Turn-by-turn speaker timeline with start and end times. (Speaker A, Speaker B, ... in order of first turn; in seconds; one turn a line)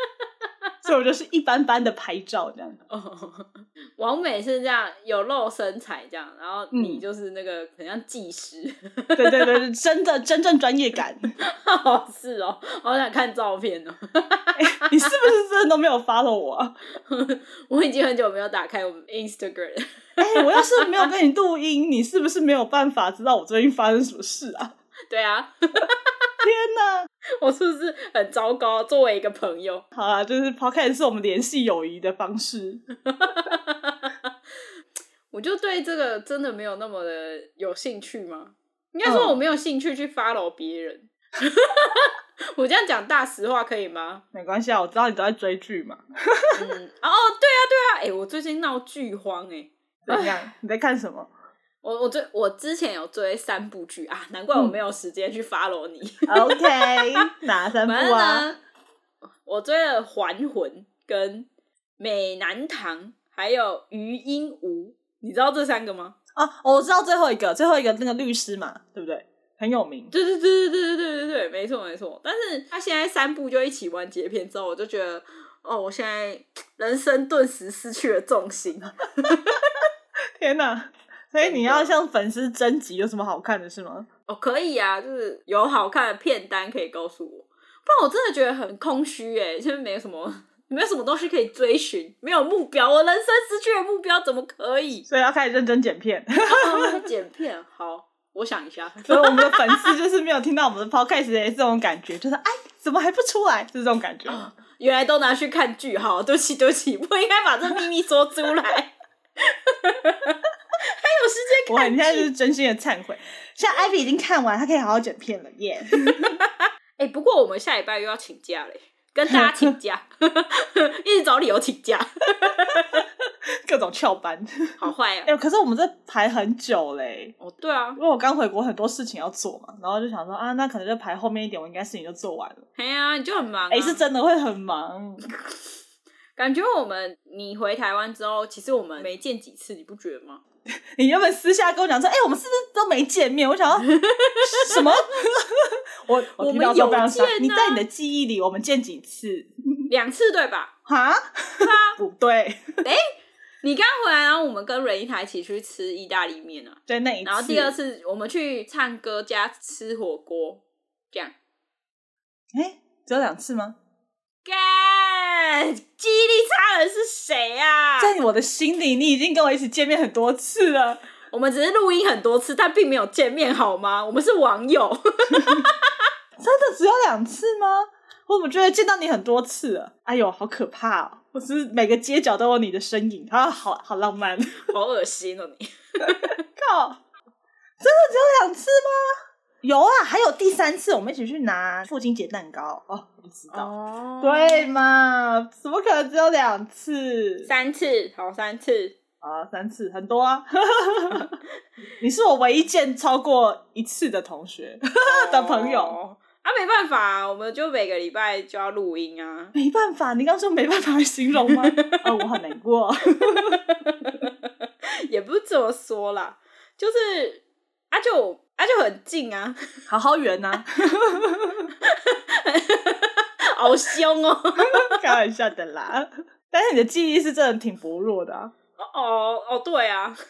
Speaker A: 0.8-2.8
Speaker B: 2.9-9.6
Speaker A: 6.7-7.0
Speaker A: 9.2-11.3
Speaker B: 11.4-15.1
Speaker A: 14.5-16.8
Speaker B: 17.0-21.0
Speaker A: 20.2-24.7
Speaker B: 25.1-26.1
Speaker A: 26.4-27.1
Speaker B: 27.4-29.8
Speaker A: 29.9-32.8
Speaker B: 33.0-34.1
Speaker B: 35.3-44.2
Speaker A: 39.0-39.3
Speaker A: 44.3-46.6
Speaker B: 46.5-50.4
Speaker A: 50.0-51.3
Speaker B: 51.8-57.3
Speaker A: 56.3-58.5
Speaker B: 57.8-58.6
Speaker B: 59.4-61.5
Speaker B: 62.0-66.2
Speaker A: 66.3-70.1
Speaker B: 70.1-79.8
Speaker A: 80.4-84.1
Speaker B: 81.4-81.9
Speaker B: 84.3-95.0
Speaker A: 95.1-97.0
Speaker B: 96.4-99.8
Speaker A: 99.1-104.5
Speaker B: 104.3-112.3
Speaker A: 111.7-116.4
Speaker B: 116.0-123.0
Speaker A: 119.3-119.7
Speaker A: 122.7-123.1
Speaker A: 123.6-127.3
Speaker B: 124.8-125.3
Speaker B: 127.4-128.0
Speaker A: 128.0-132.6
Speaker B: 132.8-134.0
Speaker A: 133.7-135.2
Speaker B: 136.4-140.4
Speaker A: 140.9-143.9
Speaker B: 143.9-144.8
Speaker A: 144.4-149.9
Speaker B: 146.4-147.8
Speaker B: 149.9-150.7
Speaker A: 150.8-152.8
Speaker B: 151.6-152.0
Speaker B: 152.8-153.1
Speaker B: 153.6-161.3
Speaker A: 156.9-157.7
Speaker A: 162.5-163.8
Speaker B: 164.4-168.1
Speaker A: 168.0-171.0
Speaker B: 171.3-175.9
Speaker A: 176.4-184.6
Speaker B: 184.6-186.4
Speaker A: 186.6-187.0
Speaker A: 187.8-193.7
Speaker B: 193.5-194.7
Speaker A: 194.2-197.5
Speaker B: 197.4-198.9
Speaker A: 199.2-201.3
Speaker A: 202.0-205.9
Speaker B: 205.0-209.5
Speaker A: 209.5-213.6
Speaker B: 213.2-219.6
Speaker A: 219.9-221.7
Speaker B: 221.8-225.0
Speaker A: 224.6-228.5
Speaker B: 228.8-230.2